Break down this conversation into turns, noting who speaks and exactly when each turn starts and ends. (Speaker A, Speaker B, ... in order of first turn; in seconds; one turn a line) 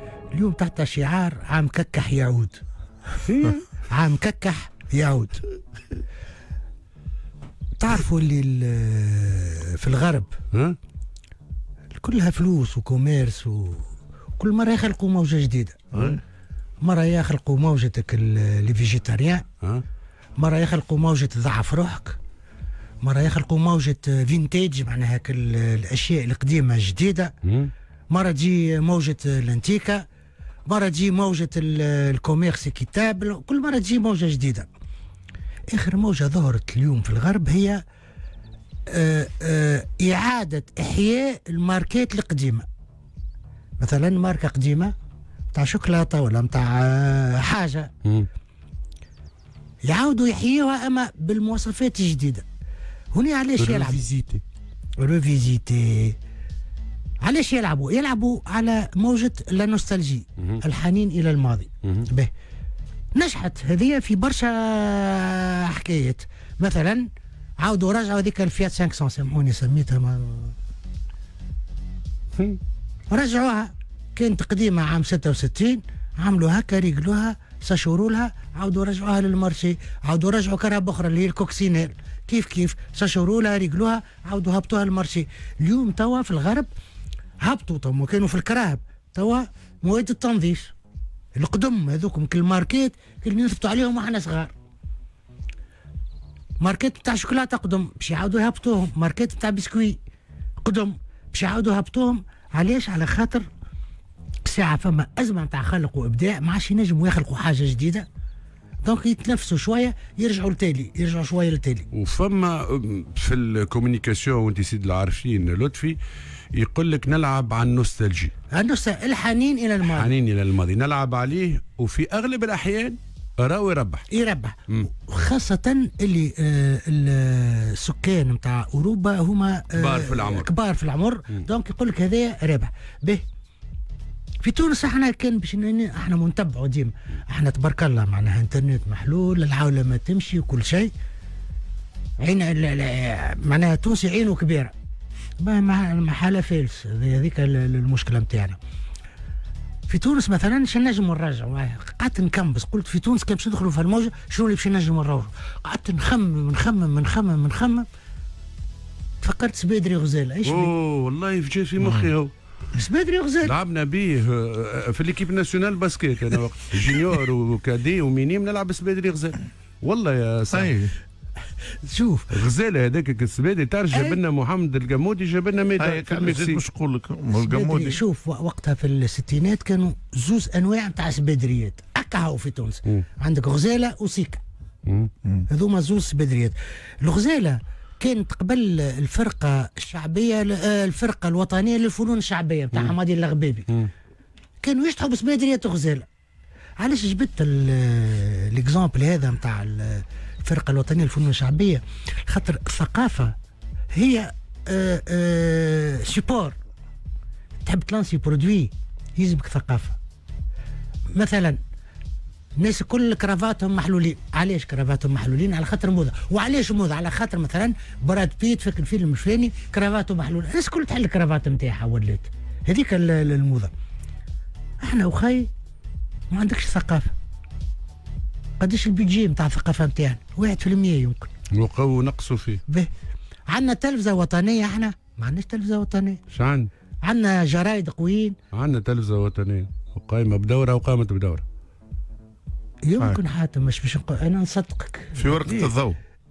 Speaker A: 0.3-2.6
Speaker B: 3.2-3.7
Speaker A: 3.9-5.4
Speaker A: 7.8-10.3
Speaker A: 11.9-13.9
Speaker A: 14.4-15.8
Speaker C: 15.9-16.2
Speaker A: 16.8-19.4
Speaker A: 20.4-22.2
Speaker A: 23.0-27.3
Speaker B: 27.4-27.7
Speaker A: 28.1-30.0
Speaker A: 30.7-34.7
Speaker A: 35.7-37.8
Speaker A: 38.9-42.6
Speaker A: 43.8-44.9
Speaker A: 45.5-47.9
Speaker A: 49.9-52.4
Speaker A: 53.1-54.0
Speaker B: 53.6-54.4
Speaker A: 55.0-56.2
Speaker A: 57.2-62.3
Speaker A: 63.1-67.1
Speaker A: 67.6-70.5
Speaker A: 73.1-86.7
Speaker A: 87.4-90.7
Speaker A: 91.3-94.5
Speaker A: 96.6-100.0
Speaker A: 100.6-103.5
Speaker A: 104.4-108.1
Speaker A: 108.8-111.8
Speaker B: 111.9-116.0
Speaker B: 116.5-118.3
Speaker A: 118.5-120.1
Speaker B: 119.8-124.1
Speaker A: 124.1-133.2
Speaker B: 129.7-130.5
Speaker A: 134.4-140.9
Speaker A: 142.2-144.7
Speaker A: 145.4-148.6
Speaker A: 149.9-157.8
Speaker A: 159.2-160.7
Speaker B: 160.4-162.3
Speaker C: 161.8-162.1
Speaker A: 162.7-163.5
Speaker B: 163.4-170.7
Speaker C: 170.5-170.9
Speaker A: 171.8-172.3
Speaker B: 172.3-176.6
Speaker C: 175.8-178.0
Speaker A: 177.3-184.4
Speaker A: 185.5-193.7
Speaker A: 194.6-196.1
Speaker A: 196.8-203.3
Speaker A: 203.9-206.6
Speaker A: 207.6-210.0
Speaker A: 211.1-211.6
Speaker A: 212.6-223.7
Speaker A: 224.8-225.5
Speaker A: 226.3-227.1
Speaker A: 228.6-231.3
Speaker B: 231.6-232.6
Speaker A: 233.5-236.2
Speaker B: 236.3-236.7
Speaker A: 237.0-238.4
Speaker B: 238.5-241.4
Speaker A: 242.8-245.3
Speaker C: 245.1-246.0
Speaker B: 245.4-245.7